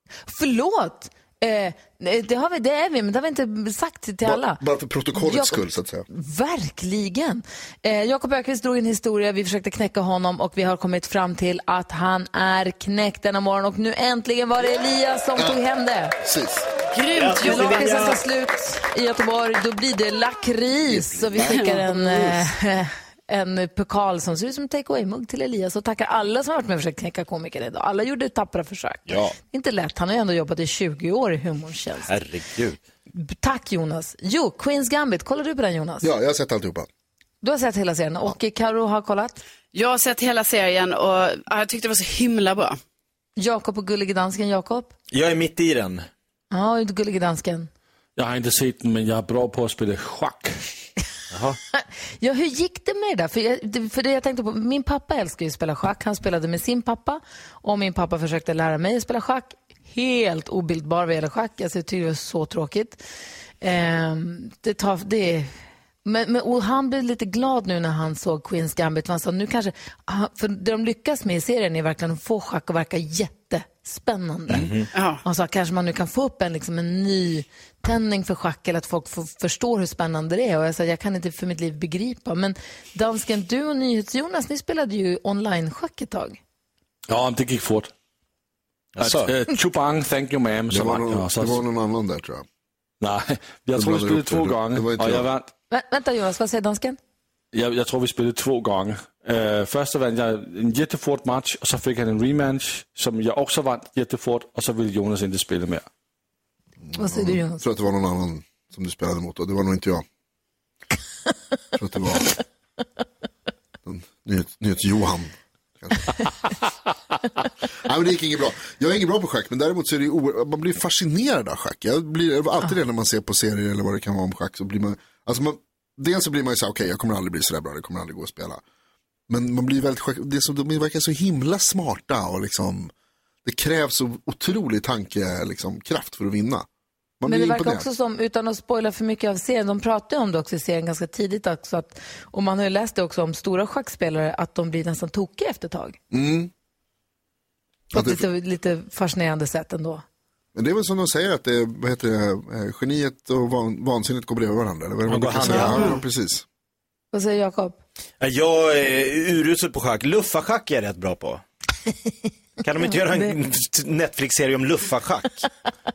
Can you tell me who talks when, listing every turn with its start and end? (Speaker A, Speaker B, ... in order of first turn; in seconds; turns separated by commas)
Speaker A: 0.3-4.6, Speaker B: 4.2-6.1, Speaker A: 5.2-16.2, Speaker B: 16.2-16.6, Speaker C: 16.9-18.1, Speaker D: 17.1-18.2, Speaker A: 17.4-32.1, Speaker B: 20.9-21.7, Speaker D: 29.1-29.4, Speaker D: 32.1-32.8, Speaker A: 33.1-36.1, Speaker B: 36.0-36.9, Speaker A: 37.4-39.4, Speaker C: 39.7-42.8, Speaker A: 43.4-44.9, Speaker D: 45.1-46.1, Speaker A: 46.5-47.7, Speaker E: 48.2-50.5, Speaker D: 51.3-51.6, Speaker A: 51.7-63.0, Speaker A: 63.6-65.5, Speaker A: 66.0-86.4, Speaker D: 74.5-74.9, Speaker C: 74.9-75.2, Speaker E: 87.1-87.9, Speaker D: 89.0-89.3, Speaker E: 89.0-91.6, Speaker B: 90.7-92.5, Speaker E: 93.0-95.5, Speaker B: 93.8-95.3, Speaker A: 95.7-97.0, Speaker E: 97.5-105.9, Speaker B: 106.8-110.0, Speaker A: 107.0-107.6, Speaker B: 111.8-112.4, Speaker B: 113.8-116.1, Speaker B: 117.8-128.6, Speaker B: 129.3-132.9, Speaker B: 133.4-136.7, Speaker B: 137.2-137.9, Speaker A: 137.2-146.0, Speaker B: 146.1-146.5, Speaker A: 147.9-150.0, Speaker B: 147.9-148.2, Speaker B: 150.6-156.4, Speaker D: 155.1-156.0, Speaker C: 155.7-156.0, Speaker A: 157.1-157.8, Speaker D: 158.2-161.4, Speaker D: 162.6-165.5